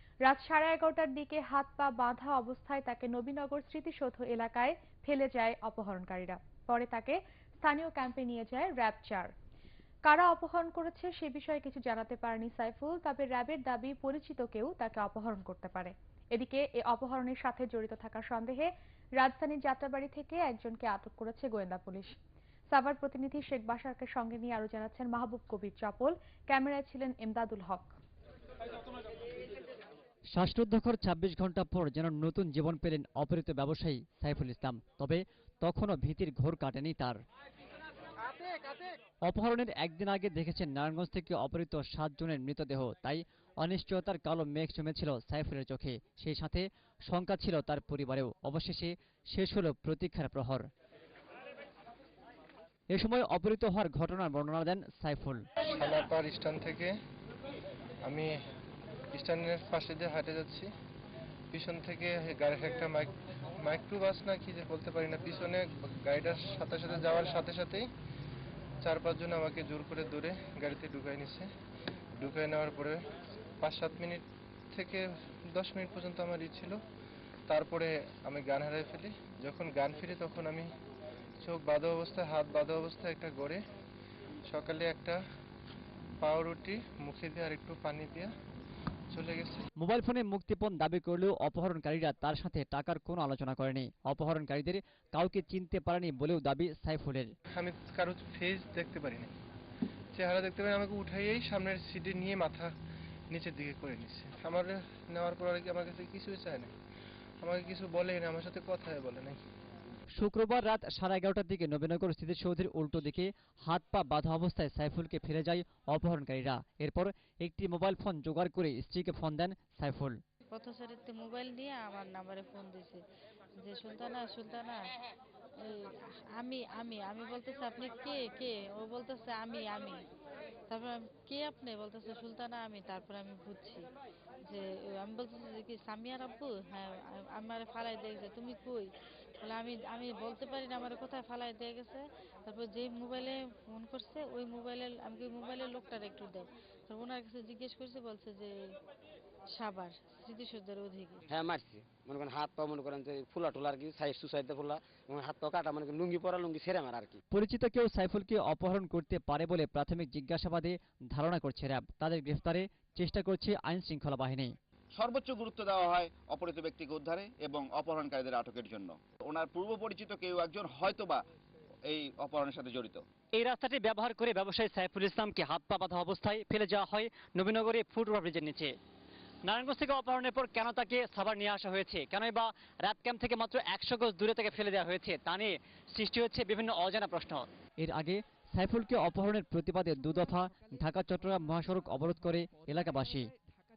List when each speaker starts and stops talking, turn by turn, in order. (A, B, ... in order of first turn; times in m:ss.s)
0:00.2-0:09.3 A
0:10.0-0:22.1 A
0:22.7-0:27.9 A
0:30.3-0:37.2 B
0:39.2-0:50.7 B
0:52.9-0:55.4 B
0:55.7-0:56.9 C
0:58.0-0:58.4 C
0:59.1-1:00.7 C
1:01.5-1:07.9 C
1:08.8-1:11.5 C
1:12.2-1:13.0 C
1:13.6-1:16.8 C
1:17.5-1:20.7 C
1:21.4-1:23.6 C
1:24.4-1:25.2 C
1:26.2-1:28.3 C
1:29.1-1:29.7 C
1:29.8-1:37.3 B
1:37.6-1:39.3 C
1:40.1-1:42.7 C
1:43.3-1:46.7 C
1:47.4-1:49.4 C
1:50.2-2:00.2 B
2:00.5-2:03.0 D
2:03.6-2:04.9 D
2:05.6-2:10.0 D
2:10.7-2:13.9 D
2:14.4-2:18.9 D
2:19.4-2:28.5 D
2:29.5-2:31.2 D
2:31.3-2:37.2 E
2:37.3-2:44.5 B
2:45.0-2:51.2 F
2:51.9-2:53.0 F
2:53.3-2:58.7 B
2:59.4-3:13.3 B